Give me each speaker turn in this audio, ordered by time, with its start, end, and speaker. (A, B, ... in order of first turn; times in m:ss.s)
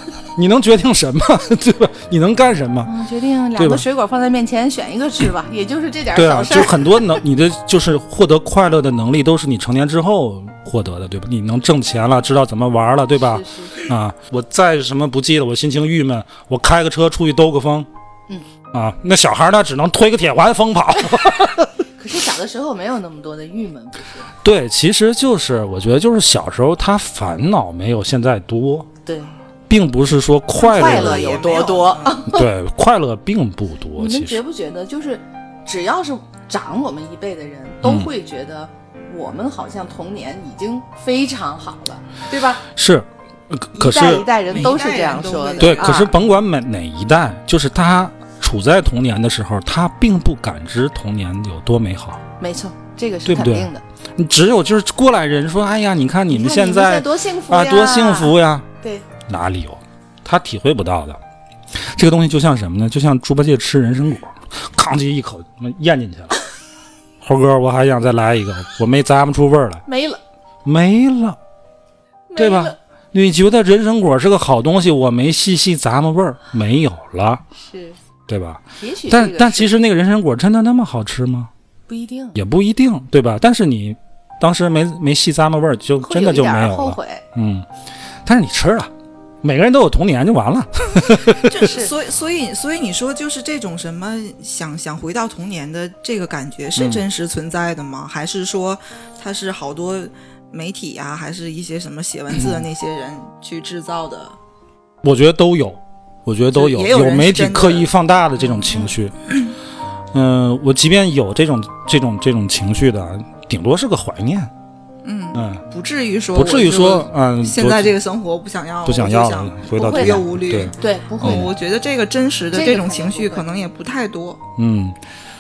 0:00.4-0:02.9 A
0:02.8-0:07.2 B
0:03.6-0:03.8 A
0:06.2-0:17.9 A
0:13.3-0:13.8 B
0:18.7-0:21.8 A
0:22.0-0:24.3 B
0:24.4-0:28.9 A
0:29.0-0:29.4 B
0:29.7-0:31.3 A
0:30.6-0:32.5 B
0:30.7-0:32.3 C
0:32.3-0:34.4 A
0:34.0-0:42.6 B
0:37.8-0:38.1 A
0:42.8-0:44.3 A
0:43.8-0:46.2 B
0:44.4-0:46.1 C
0:45.6-0:52.2 A
0:52.4-0:53.8 B
0:53.3-0:58.7 A
0:56.3-0:59.0 B
0:59.3-1:01.2 A
1:01.8-1:06.3 A
1:07.2-1:09.8 A
1:09.9-1:10.2 B
1:10.6-1:11.4 A
1:12.3-1:12.8 B
1:12.4-1:17.4 A
1:17.6-1:18.0 B
1:18.3-1:21.5 A
1:18.8-1:19.7 B
1:21.9-1:22.4 B
1:22.4-1:27.7 A
1:26.0-1:27.2 B
1:28.2-1:28.9 A
1:29.4-1:31.5 A
1:31.3-1:44.4 C
1:31.5-1:31.9 B
1:36.8-1:37.0 A
1:42.4-1:42.6 A
1:45.0-1:49.2 A
1:46.5-1:47.9 C
1:50.1-1:54.5 A
1:55.0-2:04.4 C
1:55.3-1:55.6 A
1:56.3-1:58.0 A
1:58.8-2:01.5 A
1:59.8-2:01.5 B
2:02.5-2:03.6 B
2:04.6-2:05.0 A